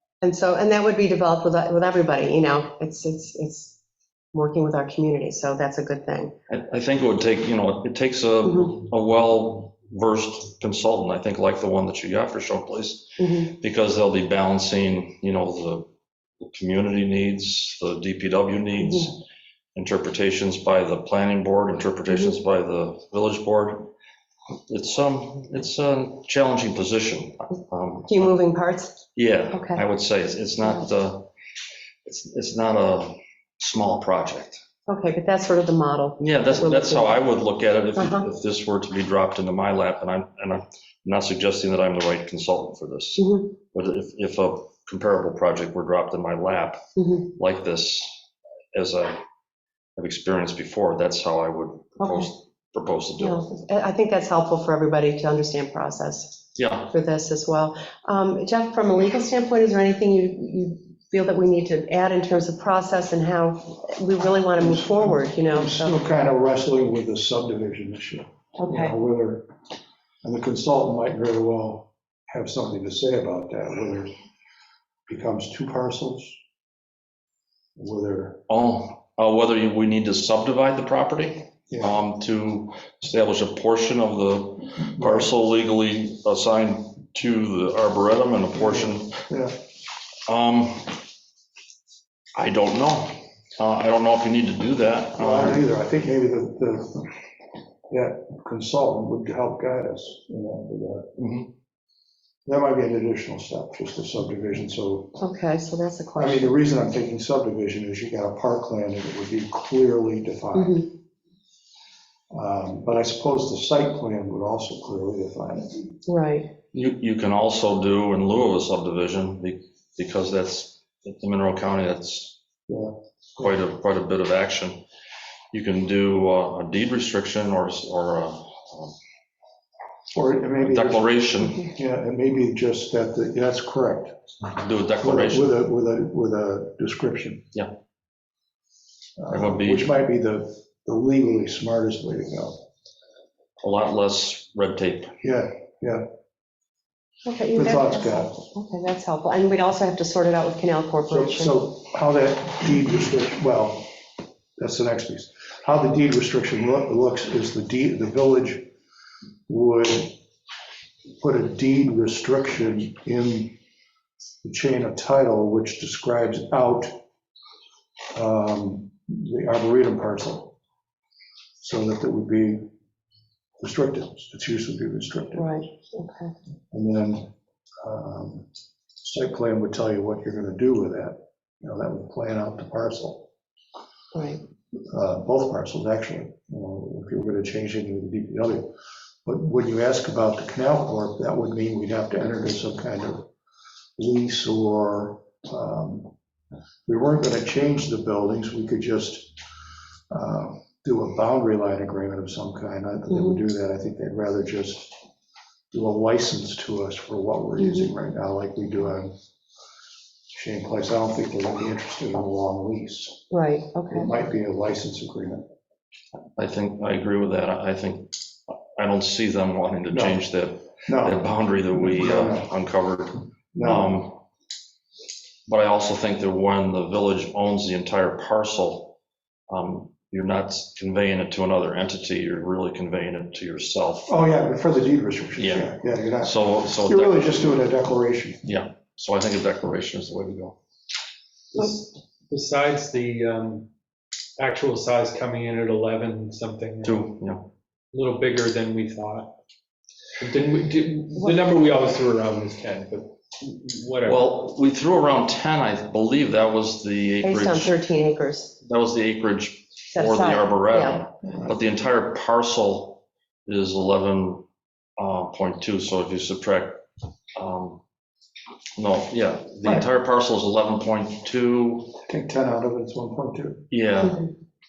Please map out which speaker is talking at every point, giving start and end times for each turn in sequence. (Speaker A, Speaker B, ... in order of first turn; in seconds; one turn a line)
Speaker A: 0.2-3.8
Speaker A: 4.3-6.3
Speaker B: 6.5-15.9
Speaker A: 8.4-8.7
Speaker A: 13.2-13.5
Speaker B: 16.4-19.2
Speaker A: 18.8-19.1
Speaker B: 19.8-23.9
Speaker A: 22.1-22.4
Speaker B: 24.7-28.3
Speaker A: 28.1-29.0
Speaker B: 29.1-31.3
Speaker A: 29.5-29.8
Speaker B: 32.0-34.6
Speaker A: 34.9-37.4
Speaker B: 36.2-46.8
Speaker A: 37.9-38.3
Speaker A: 43.2-43.5
Speaker A: 47.0-47.3
Speaker B: 47.3-48.2
Speaker B: 48.7-49.2
Speaker B: 50.0-53.4
Speaker A: 52.0-52.3
Speaker A: 53.2-66.0
Speaker B: 56.6-56.9
Speaker C: 64.6-69.5
Speaker A: 68.6-69.0
Speaker C: 70.2-74.1
Speaker C: 75.1-76.4
Speaker C: 77.8-78.4
Speaker B: 78.5-89.2
Speaker C: 81.7-82.0
Speaker C: 84.9-85.3
Speaker C: 88.6-89.6
Speaker B: 90.3-91.0
Speaker B: 92.3-95.6
Speaker C: 95.2-97.2
Speaker C: 97.9-101.1
Speaker B: 101.2-101.5
Speaker C: 102.5-105.2
Speaker A: 105.2-106.5
Speaker C: 106.2-110.9
Speaker A: 110.5-110.9
Speaker C: 112.3-116.0
Speaker A: 116.1-116.5
Speaker B: 116.7-122.4
Speaker C: 122.7-123.6
Speaker B: 123.4-124.8
Speaker B: 125.5-128.9
Speaker C: 130.1-134.2
Speaker B: 130.6-131.7
Speaker B: 134.5-135.6
Speaker C: 135.0-137.5
Speaker C: 139.2-142.6
Speaker B: 139.3-139.9
Speaker B: 143.6-145.1
Speaker C: 145.2-146.1
Speaker A: 147.2-151.6
Speaker C: 147.5-148.3
Speaker C: 151.1-153.9
Speaker C: 154.6-158.7
Speaker C: 159.5-160.2
Speaker C: 161.2-163.6
Speaker C: 164.4-166.9
Speaker C: 168.1-170.5
Speaker C: 171.6-172.7
Speaker C: 173.6-175.6
Speaker A: 175.3-176.3
Speaker C: 176.7-177.3
Speaker C: 177.8-178.5
Speaker C: 179.0-183.3
Speaker A: 184.1-184.4
Speaker C: 184.9-188.7
Speaker C: 189.2-193.3
Speaker C: 194.0-196.1
Speaker C: 196.9-199.3
Speaker C: 200.1-205.0
Speaker A: 203.1-203.4
Speaker C: 205.7-209.1
Speaker A: 207.6-207.9
Speaker C: 210.3-213.2
Speaker A: 213.3-214.1
Speaker C: 213.9-215.4
Speaker B: 216.4-224.2
Speaker C: 219.9-220.3
Speaker C: 220.9-222.6
Speaker C: 223.5-224.0
Speaker B: 225.5-229.0
Speaker B: 229.5-234.2
Speaker C: 234.1-238.4
Speaker B: 235.4-237.3
Speaker B: 238.4-240.6
Speaker D: 241.5-243.7
Speaker D: 244.4-247.2
Speaker B: 246.8-247.5
Speaker D: 247.9-249.3
Speaker D: 250.2-254.3
Speaker B: 254.1-257.8
Speaker A: 257.2-258.5
Speaker B: 258.6-264.4
Speaker A: 259.9-261.0
Speaker C: 261.3-261.6
Speaker B: 265.0-266.8
Speaker B: 267.4-267.8
Speaker B: 268.8-272.0
Speaker C: 272.1-273.6
Speaker B: 273.7-274.3
Speaker A: 274.0-274.3